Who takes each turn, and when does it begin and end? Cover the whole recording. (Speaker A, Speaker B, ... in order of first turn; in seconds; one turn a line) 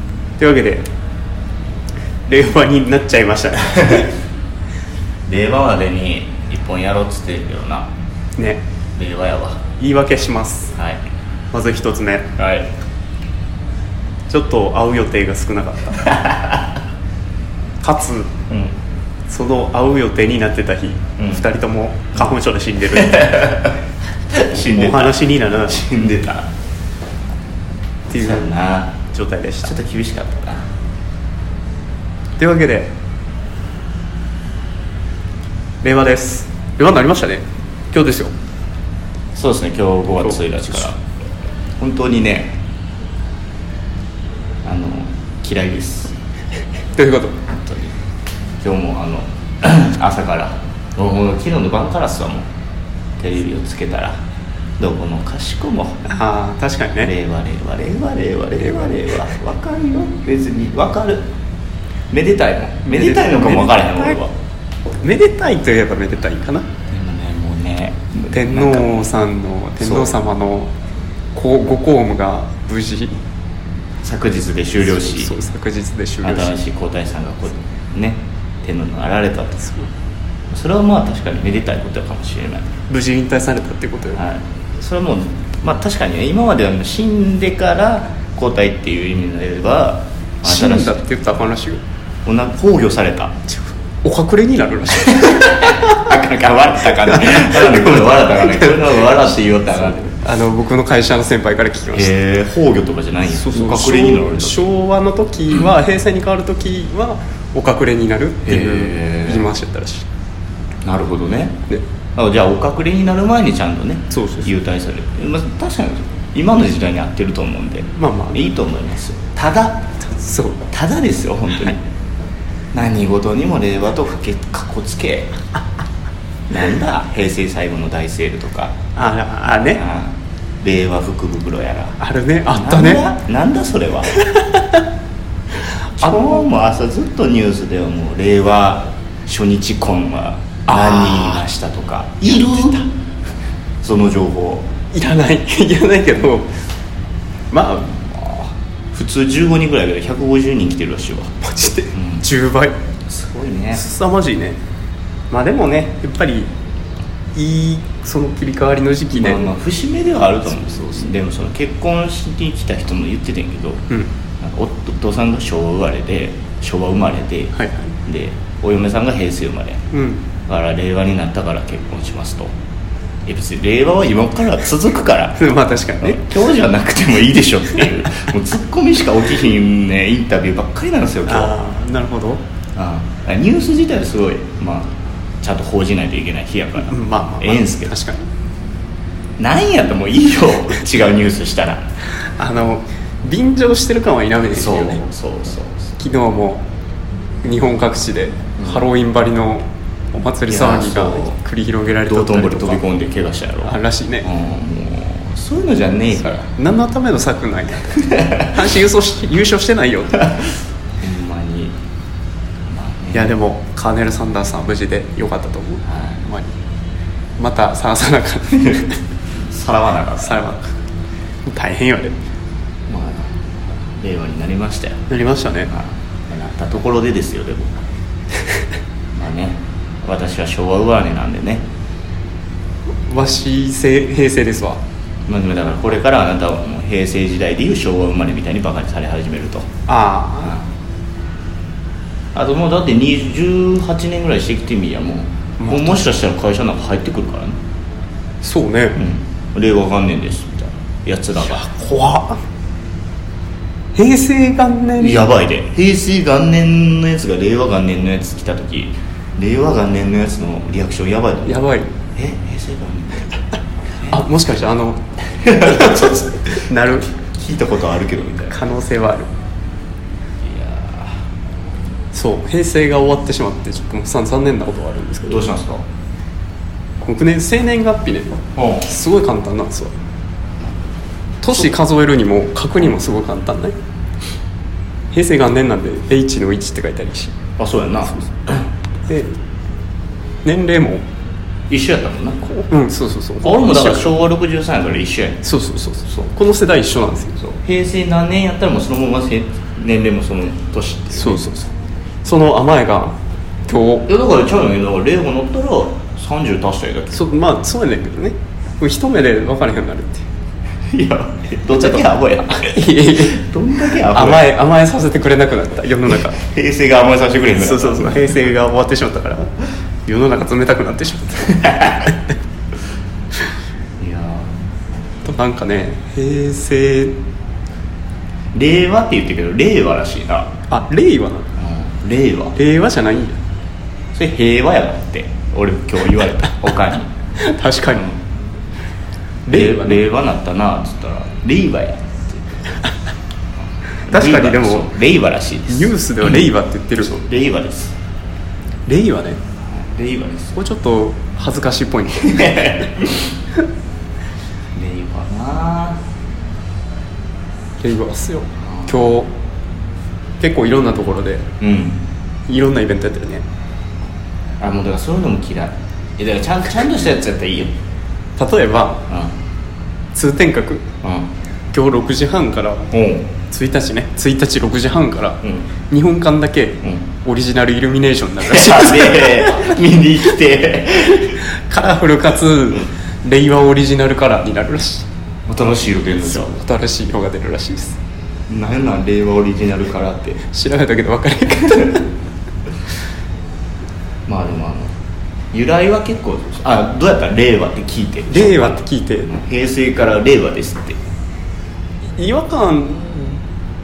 Speaker A: 0.4-0.9
Speaker A: 2.3-4.1
Speaker B: 5.3-7.9
Speaker A: 8.4-8.6
Speaker B: 8.9-9.6
Speaker A: 9.8-10.7
Speaker A: 11.5-12.3
Speaker B: 12.4-12.7
Speaker A: 14.3-16.1
Speaker B: 16.2-16.5
Speaker A: 17.8-18.3
Speaker B: 18.5-18.7
Speaker A: 19.3-23.6
Speaker B: 21.2-21.4
Speaker B: 23.0-23.8
Speaker B: 24.3-26.5
Speaker A: 24.7-25.8
Speaker A: 28.1-28.4
Speaker B: 28.1-29.1
Speaker A: 29.1-29.7
Speaker B: 29.6-30.6
Speaker A: 32.4-32.9
Speaker A: 35.8-38.3
Speaker B: 39.3-41.0
Speaker A: 40.2-40.9
Speaker B: 41.8-42.6
Speaker B: 44.6-46.1
Speaker A: 46.9-47.4
Speaker B: 47.6-47.9
Speaker B: 48.6-52.5
Speaker B: 53.2-54.2
Speaker B: 54.8-56.0
Speaker A: 56.0-57.1
Speaker B: 57.0-61.3
Speaker A: 58.6-59.1
Speaker B: 62.1-64.3
Speaker A: 62.9-64.2
Speaker A: 65.0-66.7
Speaker B: 66.9-69.0
Speaker A: 68.3-70.7
Speaker B: 69.8-70.1
Speaker A: 71.3-73.2
Speaker B: 74.0-75.3
Speaker A: 74.8-76.5
Speaker B: 76.2-79.7
Speaker B: 80.5-82.7
Speaker A: 82.9-84.2
Speaker B: 84.1-91.0
Speaker A: 90.4-91.8
Speaker B: 92.2-93.3
Speaker A: 93.5-96.0
Speaker B: 94.9-100.2
Speaker A: 96.9-99.1
Speaker A: 100.2-102.1
Speaker B: 101.9-104.7
Speaker A: 103.3-110.0
Speaker B: 108.4-109.5
Speaker B: 110.8-111.5
Speaker B: 112.2-119.9
Speaker A: 114.1-114.5
Speaker A: 118.0-118.5
Speaker A: 120.0-120.6
Speaker B: 120.7-121.8
Speaker B: 122.7-125.3
Speaker B: 126.5-128.7
Speaker A: 128.9-129.8
Speaker B: 129.7-134.1
Speaker A: 132.0-133.1
Speaker A: 134.1-134.8
Speaker B: 136.0-142.8
Speaker A: 136.0-136.4
Speaker A: 140.7-141.4
Speaker A: 142.2-142.9
Speaker B: 143.8-144.7
Speaker A: 144.9-146.5
Speaker A: 147.5-148.0
Speaker B: 148.3-151.3
Speaker A: 151.4-152.8
Speaker B: 151.9-152.2
Speaker B: 153.1-153.8
Speaker A: 153.7-154.6
Speaker A: 155.3-156.5
Speaker A: 157.3-159.4
Speaker B: 159.1-163.9
Speaker B: 164.4-167.5
Speaker A: 167.5-167.9
Speaker B: 168.1-169.8
Speaker A: 169.9-170.2
Speaker B: 170.5-172.5
Speaker B: 173.2-175.4
Speaker A: 175.4-176.3
Speaker B: 176.0-181.6
Speaker A: 181.3-182.4
Speaker B: 182.7-187.9
Speaker A: 186.8-188.2
Speaker B: 189.4-191.9
Speaker A: 192.2-195.0
Speaker B: 194.5-195.9
Speaker A: 196.0-196.6
Speaker A: 197.4-202.8
Speaker B: 198.6-198.9
Speaker B: 200.5-201.4
Speaker B: 202.1-206.5
Speaker A: 203.6-204.3
Speaker A: 206.2-210.3
Speaker B: 208.1-208.4
Speaker B: 211.0-211.8
Speaker B: 212.7-213.3
Speaker A: 213.1-216.5
Speaker B: 215.8-216.2
Speaker A: 217.4-219.0
Speaker B: 219.5-220.4
Speaker A: 220.2-220.7
Speaker A: 221.4-222.1
Speaker B: 222.9-225.0
Speaker A: 225.1-225.7
Speaker B: 225.7-227.8
Speaker B: 229.1-231.7
Speaker A: 233.1-234.8
Speaker B: 235.3-239.7
Speaker A: 239.9-240.6
Speaker B: 242.3-247.6
Speaker A: 245.6-246.0
Speaker A: 248.4-249.0
Speaker B: 248.9-251.6
Speaker A: 251.4-252.4
Speaker A: 253.9-255.3
Speaker B: 255.0-263.4
Speaker A: 261.4-261.9
Speaker B: 264.0-264.2
Speaker A: 264.1-267.1
Speaker B: 265.4-266.4
Speaker B: 267.1-268.6
Speaker A: 268.5-269.3
Speaker B: 270.4-271.2
Speaker A: 272.1-275.4
Speaker B: 275.2-275.8
Speaker A: 277.0-279.9
Speaker B: 278.5-278.9
Speaker A: 281.4-283.7
Speaker A: 285.1-287.3
Speaker B: 287.6-288.7
Speaker A: 289.1-289.4
Speaker A: 290.4-291.0
Speaker B: 291.7-292.6
Speaker A: 292.7-294.1
Speaker B: 293.4-295.4
Speaker A: 295.4-297.4
Speaker B: 297.4-301.6
Speaker A: 301.1-301.6
Speaker A: 302.2-304.1
Speaker B: 304.1-307.2
Speaker A: 307.1-310.2
Speaker B: 310.9-314.5
Speaker A: 312.6-313.4
Speaker A: 314.0-316.4
Speaker B: 316.1-318.4
Speaker A: 317.5-319.5
Speaker A: 320.1-322.1
Speaker B: 324.0-324.5
Speaker A: 325.2-327.1
Speaker B: 328.5-330.5
Speaker A: 330.7-331.5
Speaker B: 331.6-332.6
Speaker A: 332.5-333.4
Speaker B: 334.1-337.1
Speaker A: 337.4-338.1
Speaker A: 339.4-340.0
Speaker B: 339.5-342.4
Speaker A: 344.0-344.9
Speaker B: 344.0-346.5
Speaker A: 345.7-347.2
Speaker B: 347.0-347.9
Speaker A: 348.9-349.4
Speaker B: 349.6-350.6
Speaker A: 350.5-352.8
Speaker B: 352.2-353.2
Speaker B: 354.7-356.0
Speaker A: 357.8-359.3
Speaker B: 358.6-359.0
Speaker A: 360.4-361.5
Speaker B: 361.6-362.0
Speaker A: 362.5-363.4
Speaker B: 364.6-367.7
Speaker A: 368.4-369.0
Speaker A: 370.1-370.9
Speaker B: 371.0-371.3
Speaker A: 371.7-372.9
Speaker B: 372.9-373.3
Speaker A: 373.5-379.8
Speaker B: 375.4-375.7
Speaker B: 378.4-381.4
Speaker A: 381.5-385.1
Speaker B: 385.5-386.5
Speaker A: 386.2-388.0
Speaker B: 388.5-390.4
Speaker A: 390.4-392.1
Speaker B: 394.2-394.9
Speaker B: 395.5-401.0
Speaker A: 398.3-399.3
Speaker A: 402.2-403.4